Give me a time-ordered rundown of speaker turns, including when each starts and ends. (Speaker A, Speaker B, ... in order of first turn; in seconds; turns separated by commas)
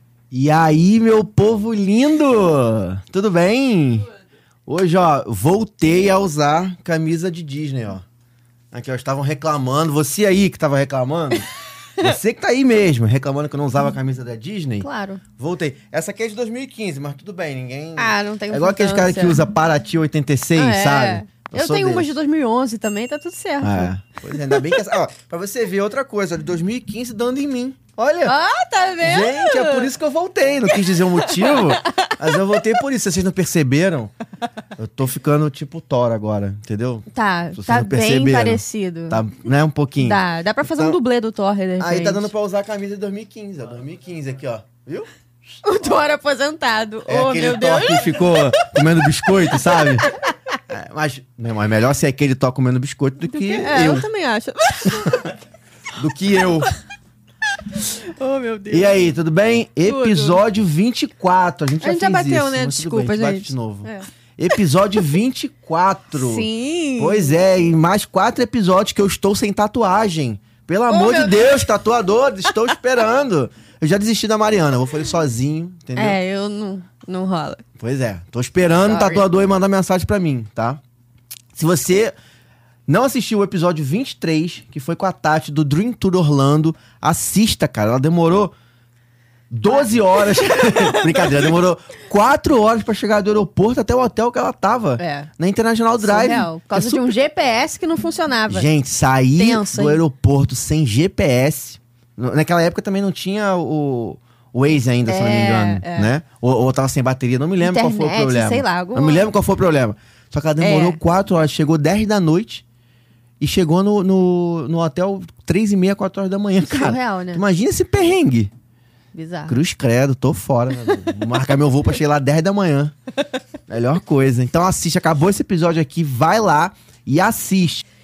Speaker A: 0.3-4.1, Speaker A: 4.7-8.0, Speaker A: 8.7-22.1, Speaker B: 14.8-15.2, Speaker B: 18.0-19.4, Speaker B: 20.6-24.5, Speaker A: 23.6-28.4, Speaker B: 28.2-29.9, Speaker A: 29.0-34.1, Speaker B: 30.9-32.2, Speaker A: 34.8-41.0, Speaker B: 37.1-39.2, Speaker B: 40.0-42.3, Speaker A: 41.8-45.1, Speaker B: 45.6-48.7, Speaker A: 47.1-50.1, Speaker B: 49.7-50.0, Speaker A: 50.7-54.1, Speaker B: 53.3-55.3, Speaker A: 55.0-55.3, Speaker A: 56.0-56.7, Speaker B: 57.8-59.1, Speaker A: 58.7-76.2, Speaker B: 59.8-60.4, Speaker B: 61.8-64.1, Speaker B: 66.2-67.3, Speaker B: 70.9-71.6, Speaker B: 76.0-77.6, Speaker A: 77.8-80.8, Speaker B: 78.8-79.2, Speaker A: 81.5-82.2, Speaker A: 82.9-88.5, Speaker A: 89.5-97.1, Speaker B: 90.6-91.0, Speaker B: 95.0-95.3, Speaker B: 96.0-98.7, Speaker A: 98.5-112.6, Speaker B: 99.3-100.0, Speaker B: 105.1-106.1, Speaker B: 107.6-109.3, Speaker B: 110.6-111.0, Speaker A: 113.4-118.5, Speaker B: 116.6-117.4, Speaker B: 119.1-119.6, Speaker A: 119.5-122.9, Speaker A: 123.7-127.8